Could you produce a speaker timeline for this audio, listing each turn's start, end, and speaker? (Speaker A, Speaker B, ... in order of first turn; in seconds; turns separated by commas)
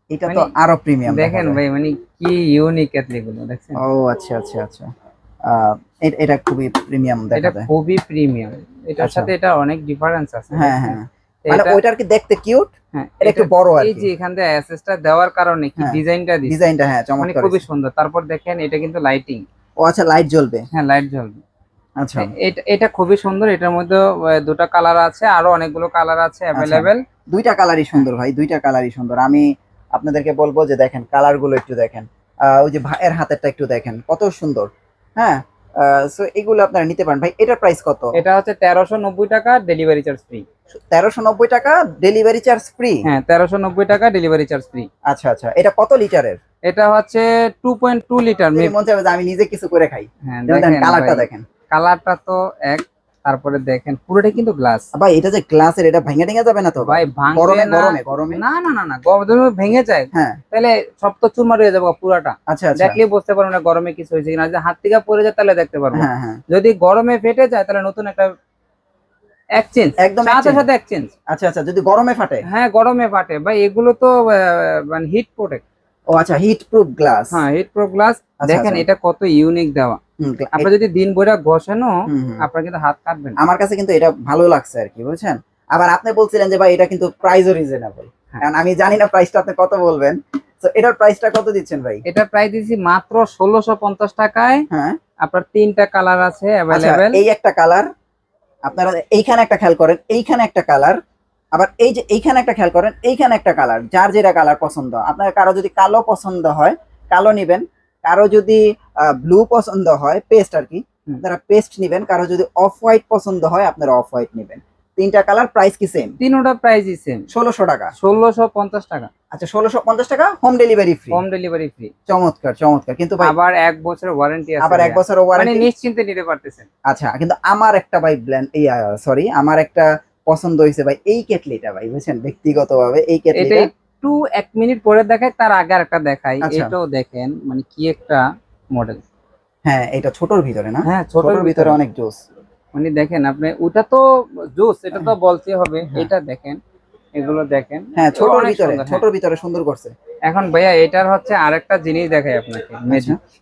Speaker A: 0.1-1.6, Speaker B: 1.1-3.8, Speaker A: 3.8-4.9, Speaker A: 5.5-7.7, Speaker B: 7.4-11.8, Speaker A: 9.0-9.3, Speaker A: 10.5-14.1, Speaker B: 12.9-16.6, Speaker A: 15.8-17.6, Speaker B: 17.2-19.4, Speaker A: 19.8-20.7, Speaker B: 20.7-21.4, Speaker A: 22.0-22.3, Speaker B: 22.2-27.0, Speaker A: 26.6-38.1, Speaker B: 38.2-40.4, Speaker A: 40.7-43.0, Speaker B: 43.0-44.9, Speaker A: 45.1-46.4, Speaker B: 46.7-48.7, Speaker A: 48.5-51.5, Speaker B: 50.3-54.9, Speaker A: 54.9-58.4, Speaker B: 56.8-68.3, Speaker A: 60.1-60.4, Speaker A: 62.5-63.0, Speaker A: 65.9-66.4, Speaker B: 69.5-71.1, Speaker A: 70.0-70.7, Speaker A: 71.3-72.5, Speaker B: 72.5-75.6, Speaker A: 76.1-77.4, Speaker B: 77.3-80.0, Speaker A: 78.4-78.9, Speaker A: 80.2-80.7, Speaker B: 80.5-83.4, Speaker A: 82.1-82.4, Speaker A: 83.4-92.0, Speaker B: 92.1-94.7, Speaker A: 94.7-95.0, Speaker B: 95.2-97.2, Speaker A: 96.7-97.9, Speaker A: 98.7-101.0, Speaker A: 101.5-116.2, Speaker B: 116.2-117.3, Speaker A: 117.3-117.9, Speaker B: 118.0-119.1, Speaker A: 119.3-121.2, Speaker B: 121.1-121.9, Speaker A: 122.1-123.3, Speaker B: 123.2-126.7, Speaker A: 124.6-125.7, Speaker A: 126.9-133.7, Speaker B: 133.4-138.2, Speaker A: 136.4-136.8, Speaker B: 138.7-139.0, Speaker A: 139.7-142.2, Speaker B: 140.9-141.8, Speaker B: 142.7-144.0, Speaker B: 144.6-146.6, Speaker A: 145.9-146.1, Speaker B: 147.2-149.0, Speaker A: 148.0-149.9, Speaker B: 150.3-153.2, Speaker A: 152.9-153.2